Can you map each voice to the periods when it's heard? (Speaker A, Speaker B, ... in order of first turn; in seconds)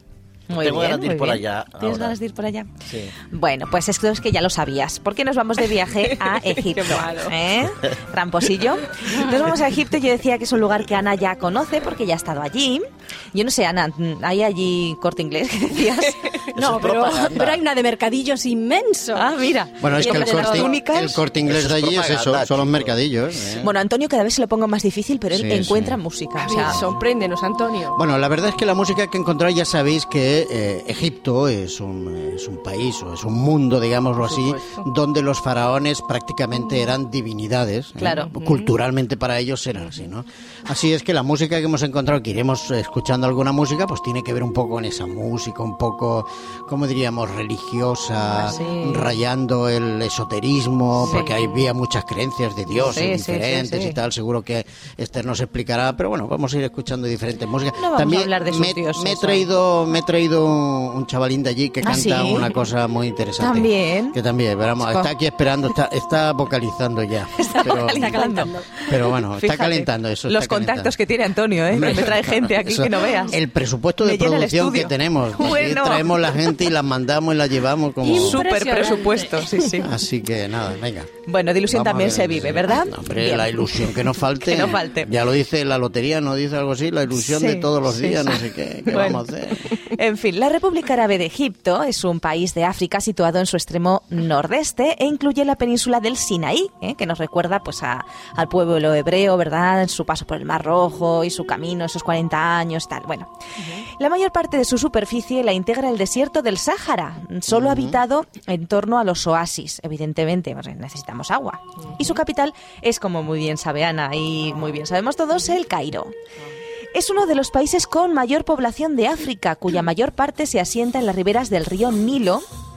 Speaker A: 0.5-2.7, 3.2-16.4, 19.1-21.2, 23.6-26.8, 38.0-38.4, 48.4-49.2, 51.0-51.3, 52.7-54.0, 57.8-59.5, 61.8-62.6, 63.4-64.2, 64.8-65.1, 67.4-73.3, 74.0-76.5, 78.2-79.9, 81.2-85.1, 87.1-116.1, 116.9-122.4
Speaker B: 0.6-2.2, 2.9-3.1, 16.5-17.6, 21.4-22.8
Speaker C: 6.6-7.3, 26.4-28.0, 34.2-34.9, 78.8-79.5
Speaker D: 16.5-19.4, 20.0-20.7, 21.5-22.9, 67.5-68.7, 78.0-79.3
Speaker E: 19.8-23.7, 25.3-26.0, 26.6-26.9, 27.9-70.9, 71.7-78.4, 79.7-81.1, 81.7-89.7, 107.5-108.0